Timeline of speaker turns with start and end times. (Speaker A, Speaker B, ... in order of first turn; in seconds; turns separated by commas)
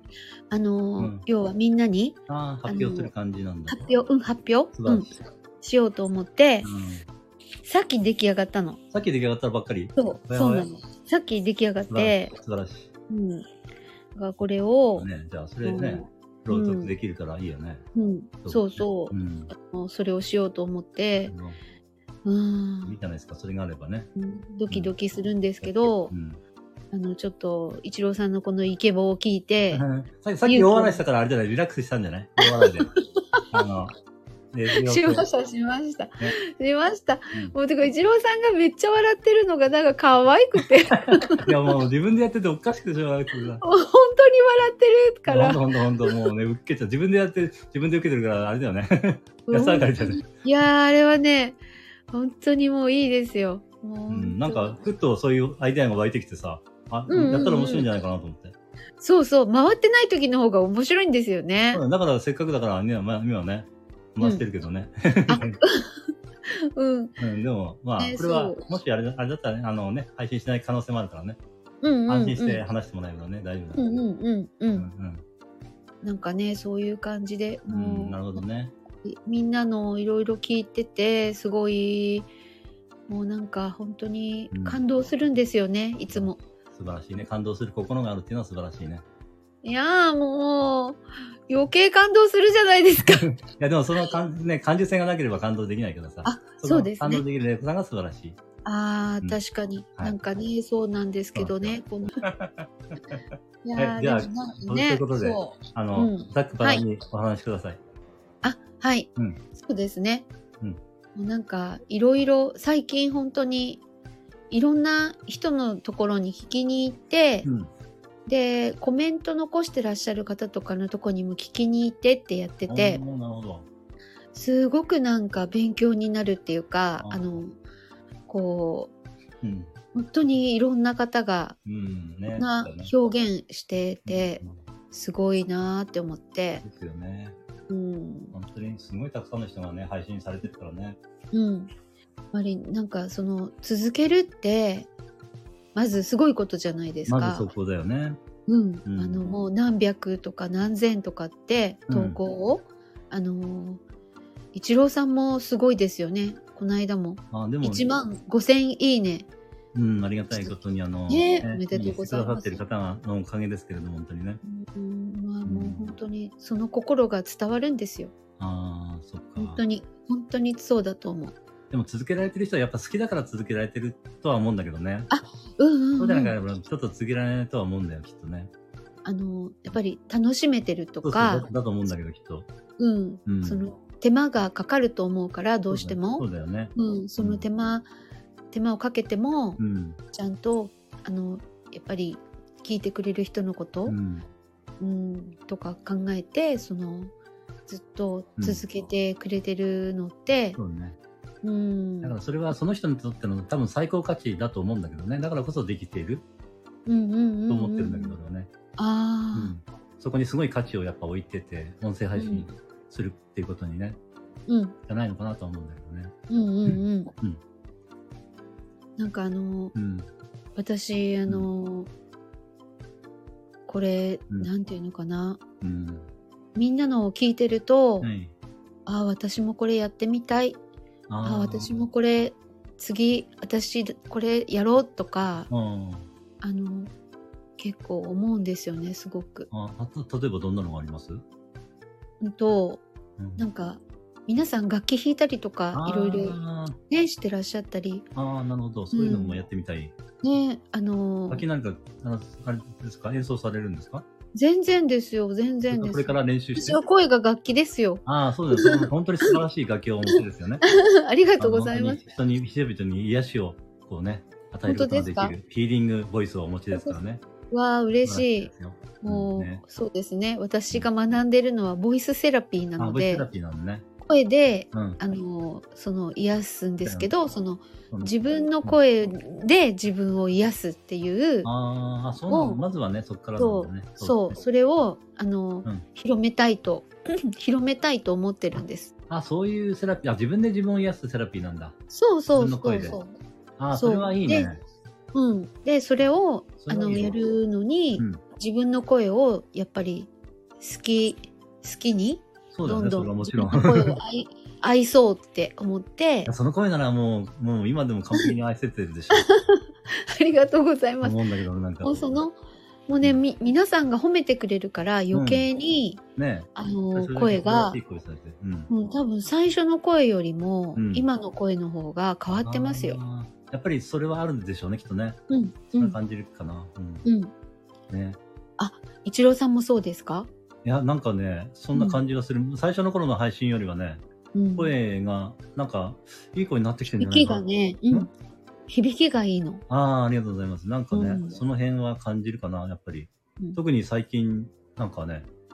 Speaker A: 0.5-3.1, Speaker B: 1.0-1.2, Speaker B: 2.3-3.9, Speaker A: 3.7-6.7, Speaker B: 4.7-5.1, Speaker B: 6.6-7.0, Speaker A: 7.7-8.8, Speaker B: 8.9-10.7, Speaker A: 10.0-12.3, Speaker B: 11.9-12.9, Speaker A: 13.1-13.5, Speaker A: 14.1-15.1, Speaker B: 15.0-17.8, Speaker A: 15.6-16.9, Speaker A: 17.9-21.3, Speaker B: 18.4-19.5, Speaker B: 21.2-21.6, Speaker A: 22.2-23.0, Speaker B: 22.8-24.1, Speaker A: 24.1-26.1, Speaker B: 24.7-24.9, Speaker B: 25.6-26.4, Speaker A: 26.9-29.8, Speaker B: 29.7-32.9, Speaker A: 30.4-31.0, Speaker A: 32.4-33.6, Speaker B: 33.5-33.9, Speaker B: 34.5-35.2, Speaker A: 34.7-41.5, Speaker B: 41.4-43.6, Speaker A: 43.6-46.2, Speaker B: 45.3-50.2, Speaker A: 49.5-51.6, Speaker A: 52.1-54.8, Speaker B: 54.1-58.5, Speaker A: 57.1-57.9, Speaker A: 59.0-61.8, Speaker B: 61.7-65.6, Speaker A: 64.2-64.4, Speaker A: 65.3-67.2, Speaker B: 67.2-71.4, Speaker A: 68.0-68.7, Speaker A: 71.8-72.6, Speaker B: 72.1-73.9, Speaker A: 73.8-74.9, Speaker B: 74.8-75.2, Speaker A: 76.0-78.4, Speaker B: 77.7-78.7, Speaker A: 79.0-82.3, Speaker A: 83.1-86.4, Speaker B: 84.5-84.8, Speaker B: 86.1-89.0, Speaker A: 89.6-93.2, Speaker B: 93.1-98.4, Speaker A: 96.2-97.2, Speaker A: 98.7-102.1, Speaker B: 101.3-103.2, Speaker A: 103.6-106.8, Speaker B: 103.8-107.8, Speaker A: 108.4-110.3, Speaker A: 111.2-113.8, Speaker A: 114.5-117.5, Speaker B: 117.4-117.7, Speaker A: 118.3-123.0, Speaker B: 122.7-123.7, Speaker A: 124.3-127.6, Speaker B: 127.0-127.3, Speaker A: 128.3-128.9, Speaker B: 129.4-129.7, Speaker A: 129.9-131.6, Speaker B: 131.7-132.9, Speaker A: 132.3-136.6, Speaker B: 134.1-134.6, Speaker B: 136.6-137.3, Speaker A: 137.7-138.3, Speaker B: 138.3-141.0, Speaker A: 141.3-141.7, Speaker A: 142.3-144.9, Speaker A: 145.7-147.5, Speaker B: 147.1-148.2, Speaker A: 148.5-153.8, Speaker B: 148.8-149.3, Speaker B: 151.9-152.2, Speaker A: 154.5-159.3, Speaker B: 157.3-157.8, Speaker B: 159.7-164.4, Speaker A: 161.1-162.6, Speaker A: 164.4-168.1, Speaker B: 165.5-166.0, Speaker B: 168.4-169.6, Speaker A: 169.4-171.3, Speaker B: 171.7-175.1, Speaker A: 175.1-176.3, Speaker B: 176.0-178.5, Speaker A: 179.0-181.5, Speaker B: 181.0-182.5, Speaker A: 182.8-187.9, Speaker B: 183.3-183.7, Speaker B: 185.7-187.5, Speaker A: 188.5-189.6, Speaker B: 189.6-190.0, Speaker A: 190.1-194.0, Speaker B: 193.8-194.3, Speaker A: 194.8-197.1, Speaker A: 197.7-200.6, Speaker B: 200.6-201.0, Speaker A: 201.4-202.2, Speaker B: 202.0-206.2, Speaker A: 206.8-208.2, Speaker B: 207.5-208.5, Speaker A: 208.8-209.5, Speaker B: 209.3-214.0, Speaker A: 212.2-212.5, Speaker A: 214.5-214.7, Speaker B: 214.9-216.1, Speaker A: 216.3-217.1, Speaker B: 216.7-217.4, Speaker A: 219.0-219.7, Speaker B: 219.7-220.1, Speaker A: 220.6-221.9, Speaker A: 223.7-225.4, Speaker B: 225.6-226.1, Speaker A: 226.5-228.1, Speaker B: 228.0-228.3, Speaker A: 228.8-230.6, Speaker B: 231.1-231.8, Speaker A: 231.2-235.5, Speaker B: 235.5-236.1, Speaker A: 236.4-236.9, Speaker A: 237.6-239.5, Speaker B: 239.5-241.2, Speaker A: 242.2-242.8, Speaker B: 243.2-243.5, Speaker A: 243.4-248.0, Speaker B: 245.7-246.8, Speaker B: 248.2-249.9, Speaker A: 248.9-249.4, Speaker A: 250.2-251.4, Speaker B: 251.3-254.0, Speaker A: 254.3-259.4, Speaker B: 255.7-256.8, Speaker B: 258.1-260.6, Speaker A: 260.1-262.0, Speaker B: 261.4-267.2, Speaker A: 264.7-265.4, Speaker A: 266.7-267.0, Speaker A: 267.5-268.5, Speaker B: 268.0-269.6, Speaker A: 269.0-273.3, Speaker B: 272.8-273.9, Speaker A: 274.0-281.5, Speaker B: 274.7-275.0, Speaker B: 276.8-277.1, Speaker B: 277.9-278.8, Speaker B: 281.4-284.4, Speaker A: 282.3-282.6, Speaker A: 283.4-288.9, Speaker B: 289.1-291.7, Speaker A: 291.9-293.1, Speaker B: 292.4-293.0, Speaker B: 293.6-294.6, Speaker A: 293.7-294.5, Speaker A: 295.1-306.3, Speaker B: 296.6-297.2, Speaker B: 302.5-304.0, Speaker B: 306.2-309.3, Speaker A: 309.1-311.2, Speaker B: 311.0-312.2, Speaker A: 311.8-316.0, Speaker B: 315.1-315.5, Speaker B: 316.1-318.7, Speaker A: 316.6-317.8, Speaker A: 318.7-323.0, Speaker B: 320.8-321.1, Speaker B: 322.3-325.2, Speaker A: 325.3-326.0, Speaker B: 325.8-327.1, Speaker A: 327.0-327.3, Speaker B: 327.9-328.2, Speaker A: 328.6-330.3, Speaker B: 330.6-334.0, Speaker A: 331.8-332.0, Speaker A: 334.3-334.7, Speaker B: 334.6-338.1, Speaker A: 337.0-338.1, Speaker A: 338.7-339.6, Speaker B: 339.7-345.3, Speaker A: 340.9-341.4